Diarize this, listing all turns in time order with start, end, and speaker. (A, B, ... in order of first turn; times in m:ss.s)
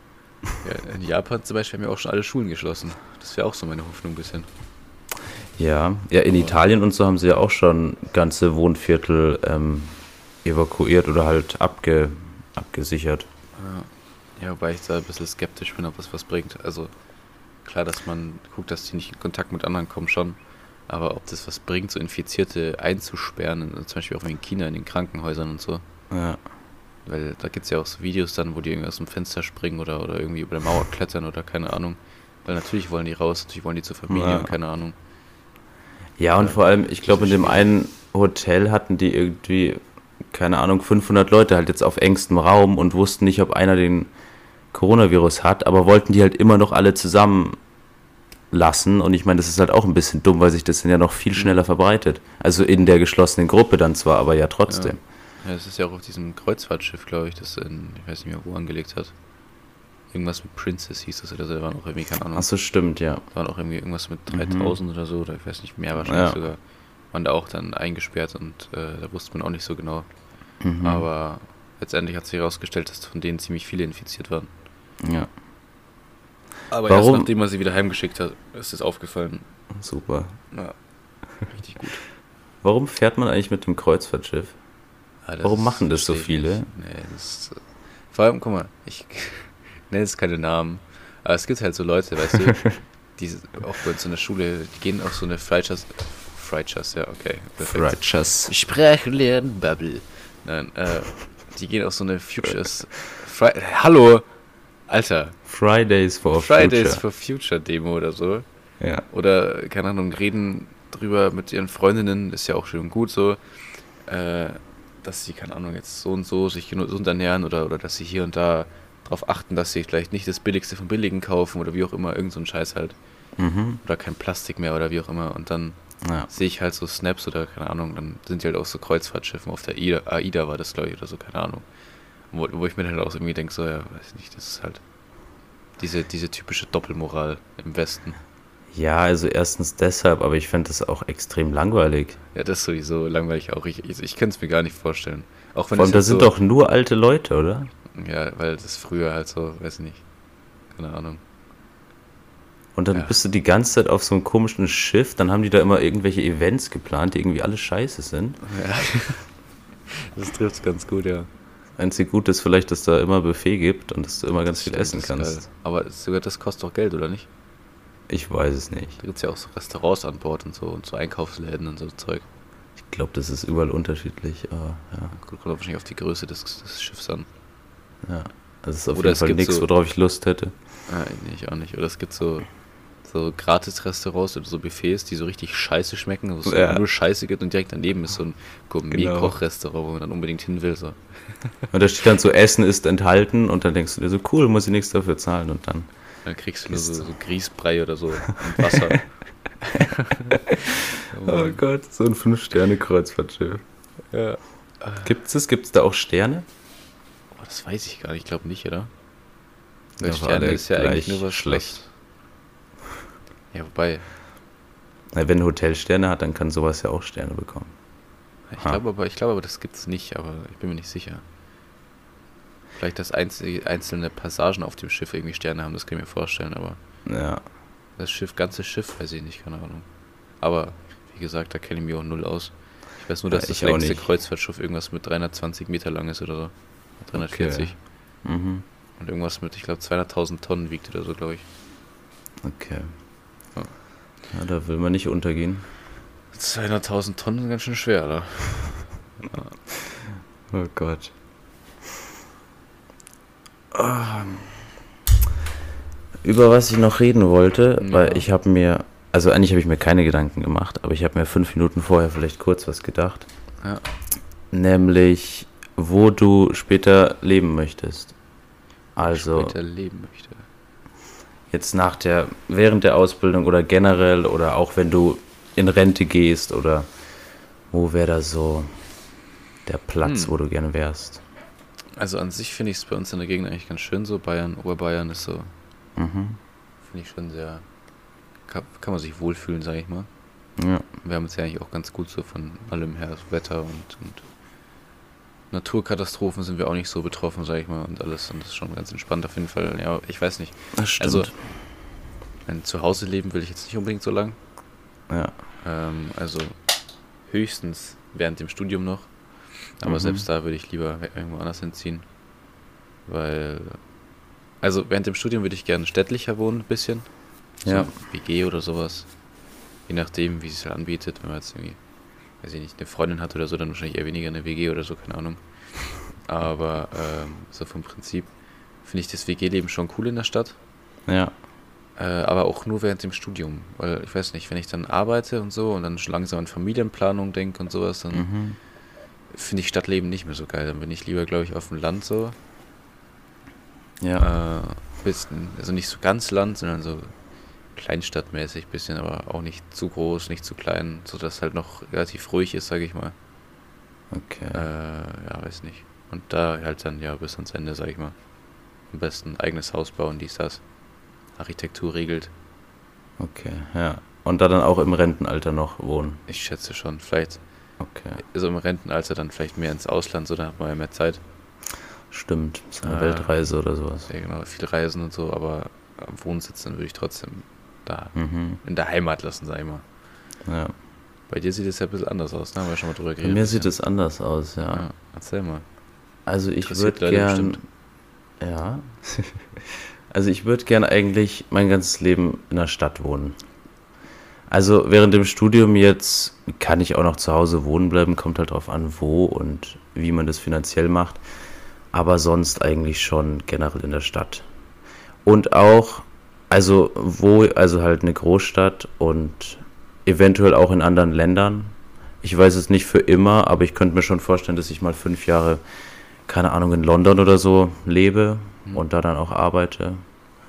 0:00.6-0:04.5 A
0:05.6-0:13.3 B
0:13.6-0:16.9 A
0:17.6-0:25.8 A
0:26.1-0:26.4 B
0:27.0-0:34.9 A
0:34.1-0:34.5 B
0:36.2-0:44.1 B
0:36.4-0:37.7 A
0:44.7-0:47.6 B
0:48.5-0:55.0 B
0:54.7-0:59.1 A
1:00.1-1:02.5 A
1:02.3-1:03.2 B
1:03.3-1:06.6 A
1:04.3-1:04.8 B
1:06.0-1:06.4 B
1:07.1-1:10.1 A
1:10.6-1:11.0 B
1:10.8-1:14.5 A
1:15.0-1:15.3 B
1:16.7-1:19.5 A
1:16.9-1:17.3 B
1:19.7-1:20.3 B
1:21.4-1:22.0 A
1:22.6-1:24.5 B
1:25.2-1:27.6 A
1:25.4-1:26.7 B
1:28.1-1:37.9 A
1:37.6-1:38.5 B
1:38.4-1:44.2 A
1:44.9-1:45.4 A
1:45.5-1:47.0 B
1:46.3-1:48.4 A
1:48.8-1:49.0 B
1:49.1-1:53.4 A
1:54.0-2:03.0 A
2:03.4-2:03.8 B
2:03.8-2:11.6 A
2:06.0-2:06.3 B
2:12.3-2:14.8 A
2:15.8-2:18.2 A
2:18.7-2:22.2 B
2:22.3-2:26.3 A
2:25.7-2:27.7 B
2:27.9-2:30.0 A
2:30.7-2:31.2 A
2:32.7-2:38.4 B
2:38.4-2:39.2 A
2:39.9-2:41.3 A
2:41.8-2:45.4 B
2:44.5-2:47.3 A
2:48.1-2:49.0 B
2:49.0-2:52.2 A
2:52.8-2:55.1 B
2:55.1-2:57.3 A
2:58.0-3:00.5 B
2:58.9-2:59.7 A
3:00.9-3:02.5 A
3:03.0-3:11.5 A
3:06.4-3:06.8 B
3:08.9-3:09.3 B
3:11.7-3:15.9 B
3:16.2-3:19.0 A
3:16.7-3:17.0 B
3:18.6-3:18.9 B
3:19.6-3:21.6 A
3:20.3-3:23.6 B
3:24.1-3:25.1 A
3:25.0-3:26.4 B
3:27.3-3:28.9 A
3:30.0-3:31.8 B
3:30.0-3:31.8 A
3:33.5-3:34.0 A
3:35.1-3:37.7 B
3:38.5-3:41.2 A
3:42.8-3:46.8 A
3:47.0-3:47.4 B
3:48.0-3:49.8 A
3:50.4-3:57.8 A
3:53.3-3:54.0 B
3:57.2-3:57.7 B
3:58.2-3:58.6 B
3:59.0-4:01.4 A
4:02.4-4:02.9 B
4:04.3-4:05.7 B
4:06.3-4:09.5 A
4:10.5-4:11.1 B
4:13.7-4:14.6 B
4:16.2-4:23.3 B
4:17.8-4:18.2 A
4:24.5-4:28.1 B
4:29.0-4:29.5 B
4:29.0-4:30.4 A
4:31.5-4:36.9 B
4:37.7-4:38.7 B
4:39.6-4:41.2 B
4:40.0-4:40.3 A
4:42.0-4:45.5 A
4:46.0-4:46.4 B
4:46.8-4:47.6 A
4:48.5-4:50.1 A
4:50.6-4:50.8 B
4:51.0-4:54.3 A
4:55.5-5:01.3 A
5:00.7-5:01.3 B
5:02.4-5:04.4 A
5:05.1-5:05.3 B
5:05.6-5:06.5 A
5:07.3-5:09.1 A
5:09.8-5:12.0 A
5:09.8-5:10.2 B
5:13.1-5:13.8 A
5:14.6-5:17.1 A
5:17.6-5:17.9 B
5:17.6-5:19.1 A
5:19.9-5:21.8 A
5:22.4-5:25.4 A
5:26.2-5:28.3 A
5:28.8-5:30.6 A
5:31.1-5:31.3 B
5:32.0-5:38.3 A
5:38.1-5:38.6 B
5:39.3-5:42.3 A
5:44.0-5:44.2 B
5:44.2-5:47.1 A
5:47.7-5:53.1 A
5:54.1-5:54.6 B
5:54.5-5:58.1 A
5:58.9-6:00.6 A
6:01.4-6:02.3 A
6:03.2-6:06.2 B
6:06.3-6:07.4 A
6:07.8-6:08.2 B
6:08.2-6:11.2 A
6:12.1-6:14.1 B
6:12.8-6:13.4 A
6:14.1-6:19.8 A
6:18.1-6:18.6 B
6:20.4-6:20.7 B
6:21.3-6:23.7 A
6:23.2-6:24.8 B
6:24.7-6:25.6 A
6:26.2-6:27.6 B
6:26.6-6:27.6 A
6:28.4-6:33.4 B
6:34.5-6:41.2 B
6:41.9-6:44.4 B
6:45.2-6:55.6 B
6:56.3-7:00.0 B